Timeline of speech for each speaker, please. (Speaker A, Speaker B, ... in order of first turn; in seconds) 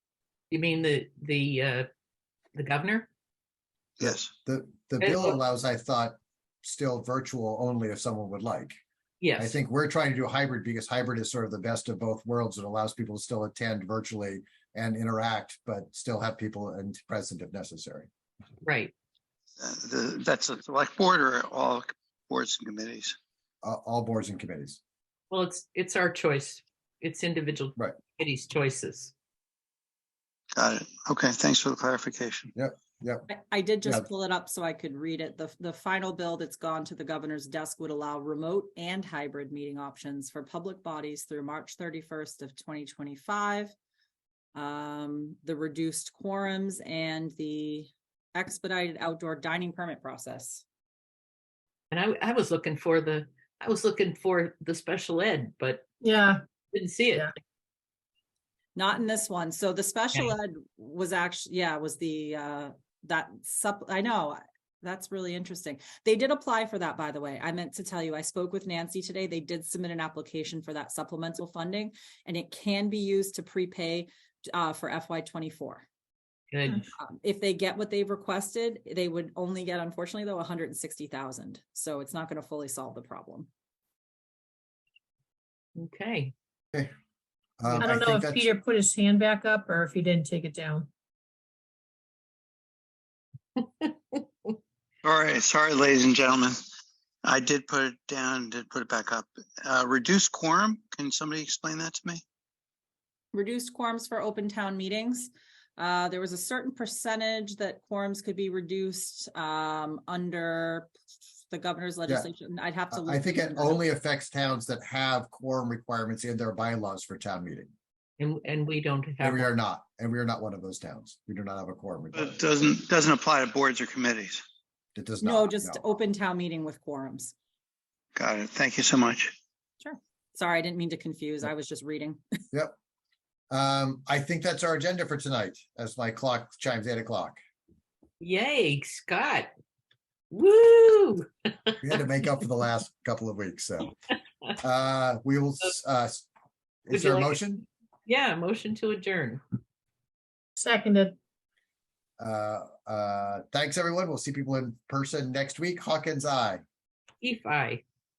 Speaker A: 0.5-1.9, 2.5-3.1, 5.0-5.4, 9.2-9.6, 18.6-18.9, 25.3-29.1, 51.9-55.8, 56.7-57.3, 76.5-76.9, 85.8-86.3, 93.5-94.5, 118.2-119.5, 138.2-139.5, 140.3-141.8, 146.9-147.5, 148.1-149.4, 157.2-157.8
Speaker B: 4.0-4.3, 19.6-23.2, 30.6-32.5, 95.0-96.6, 97.2-102.2, 122.1-124.4, 128.2-129.3
Speaker C: 4.0-8.8, 9.4-18.1, 23.6-24.8, 32.5-33.2, 87.6-88.5, 112.9-117.7, 119.2-122.4, 124.9-125.8, 133.5-137.4, 141.8-143.9, 144.6-146.3, 146.8-147.6, 152.2-156.6
Speaker D: 33.3-43.7, 44.5-50.6, 58.8-75.9, 77.0-83.5, 103.3-110.9, 111.5-113.8, 125.2-127.3, 129.8-132.4
Speaker E: 56.0-56.4, 87.8-90.9, 150.6-151.2